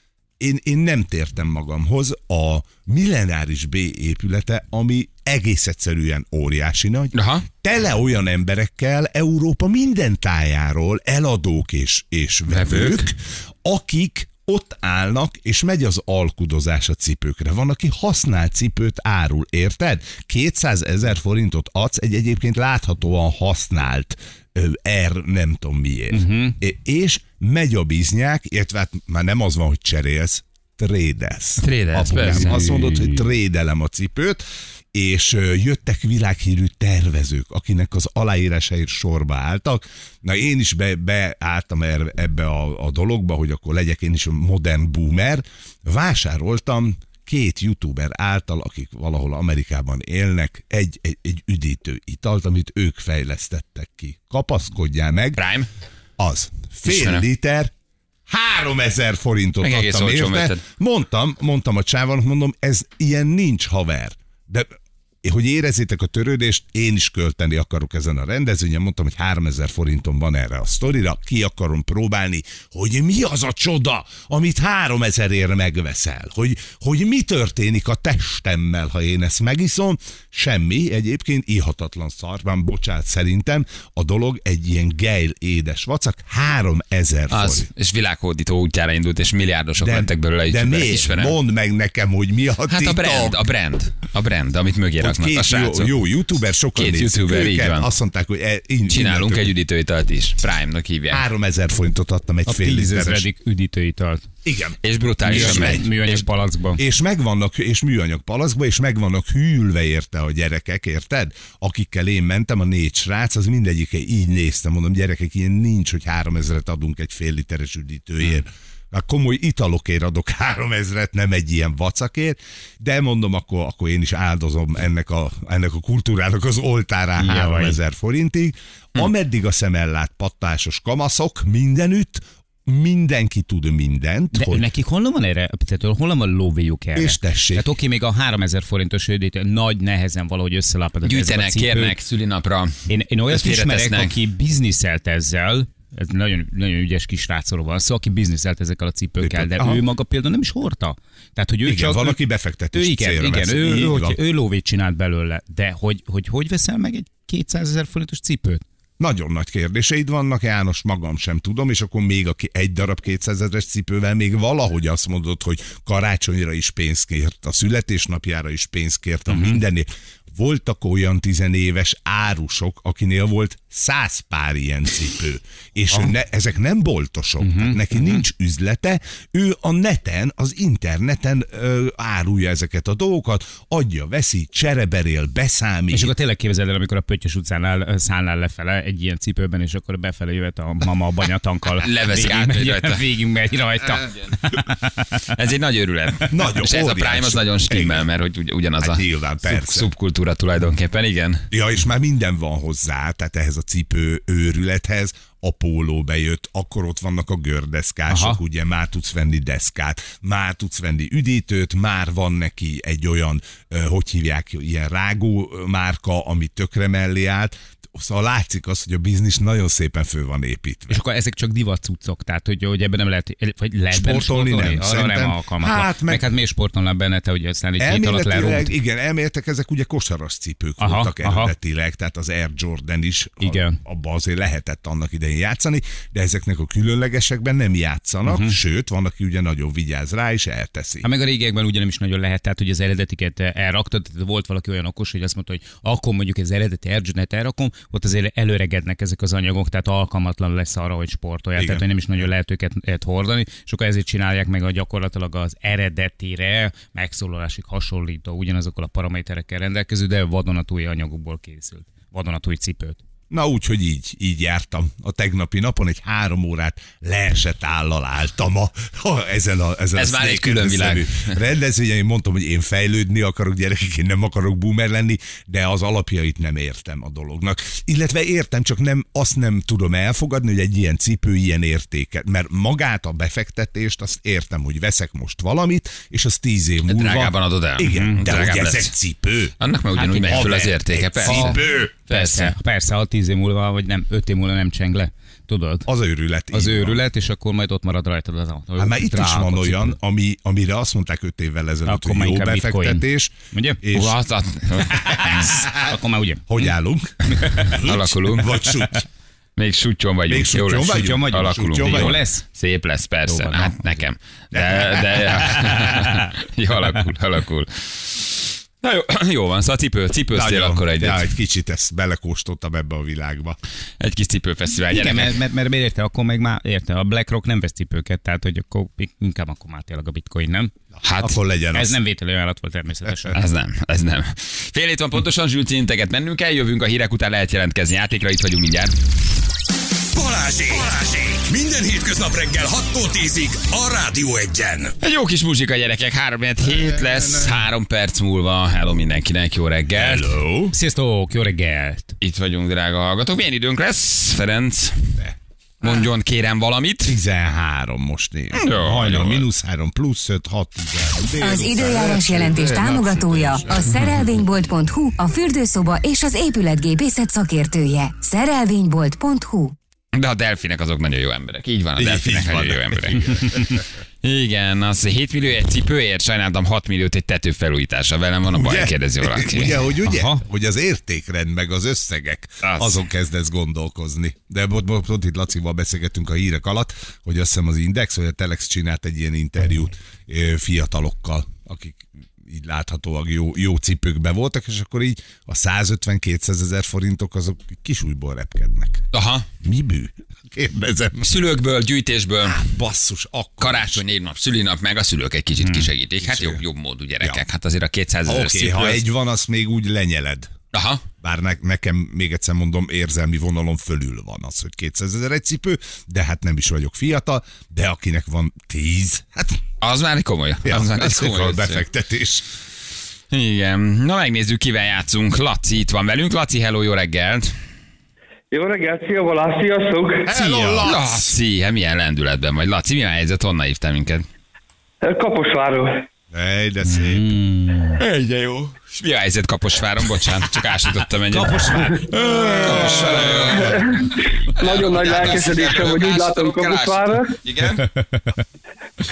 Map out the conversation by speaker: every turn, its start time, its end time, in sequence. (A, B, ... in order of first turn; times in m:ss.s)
0:00.4-0:55.4 A
0:07.1-0:07.4 B
0:12.5-0:13.1 B
0:26.1-0:26.6 C
0:31.6-0:32.7 B
0:32.2-0:33.2 C
0:55.4-0:55.7 B
0:56.2-0:57.7 A
0:56.8-0:57.2 B
0:58.3-1:04.7 A
0:59.6-1:00.6 B
1:05.2-1:27.7 A
1:27.3-1:31.4 B
1:29.8-1:33.4 A
1:32.7-1:35.9 B
1:35.0-1:39.5 A
1:36.8-1:37.9 B
1:38.9-1:41.2 B
1:41.1-1:43.3 A
1:42.4-1:44.2 C
1:44.4-1:45.9 A
1:44.8-1:46.2 B
1:45.2-1:46.8 C
1:46.8-2:14.7 A
2:07.2-2:07.8 C
2:14.3-2:22.0 C
2:16.9-2:17.7 A
2:21.0-2:24.1 B
2:22.9-2:32.2 C
2:29.2-2:29.8 A
2:31.6-2:34.2 A
2:32.7-2:38.6 C
2:39.0-3:06.1 A
2:49.3-2:49.6 C
2:57.4-2:58.2 C
3:05.9-3:15.3 C
3:11.8-3:13.0 B
3:15.3-3:21.4 B
3:16.3-3:18.0 A
3:18.8-3:19.9 A
3:21.5-3:41.0 A
3:28.1-3:28.4 C
3:40.9-3:48.7 C
3:43.9-3:46.2 A
3:47.8-4:01.1 A
3:50.8-3:51.5 C
3:53.4-3:53.8 C
3:58.2-3:58.6 C
4:01.0-4:23.0 C
4:11.6-4:11.8 A
4:23.3-4:51.9 A
4:30.0-4:31.3 B
4:46.9-4:48.9 B
4:47.9-4:48.2 C
4:49.6-4:52.5 B
4:51.2-4:55.9 C
4:55.8-4:57.0 A
4:56.5-5:00.0 C
4:58.8-5:04.2 A
5:01.8-5:03.8 C
5:03.9-5:05.6 B
5:04.9-5:05.9 A
5:05.1-5:06.7 C
5:06.5-5:09.0 A
5:07.3-5:07.8 C
5:07.8-5:08.6 B
5:09.6-5:21.3 B
5:10.3-5:12.2 A
5:10.9-5:12.4 C
5:13.2-5:14.0 C
5:14.5-5:15.8 A
5:20.3-5:23.6 A
5:24.0-5:25.4 B
5:24.9-5:30.7 C
5:31.0-5:31.4 B
5:31.2-5:32.0 A
5:31.7-5:33.4 C
5:33.3-5:38.9 B
5:40.1-5:44.9 D
5:45.0-5:50.3 B
5:46.6-5:47.6 A
5:49.9-5:50.7 A
5:50.7-5:52.2 C
5:52.2-5:55.2 B
5:55.8-5:57.2 B
5:57.0-6:03.9 A
5:58.6-5:59.5 B
6:01.4-6:09.7 E
6:10.1-6:13.6 B
6:12.0-6:13.8 A
6:14.2-6:19.8 B
6:18.5-6:39.0 A
6:20.0-6:20.4 C
6:22.6-6:23.0 B
6:39.1-6:39.4 B
6:39.6-6:41.3 A
6:41.2-6:42.6 B
6:42.4-6:44.0 A
6:43.6-6:49.0 B
6:46.2-6:46.6 A
6:48.2-6:50.5 A
6:50.7-6:51.0 B
6:51.2-6:59.6 A
6:59.8-7:01.8 B
7:00.6-7:02.4 A
7:03.3-7:07.5 B
7:08.5-7:10.3 F
7:10.2-7:11.3 A
7:10.8-7:14.2 B
7:15.0-7:16.0 F
7:16.3-7:17.3 A
7:16.8-7:18.0 C
7:18.0-7:21.9 B
7:21.3-7:23.3 C
7:22.2-7:23.8 A
7:22.5-7:24.0 B
7:23.5-7:27.3 F
7:24.6-7:27.8 B
7:27.8-7:28.4 C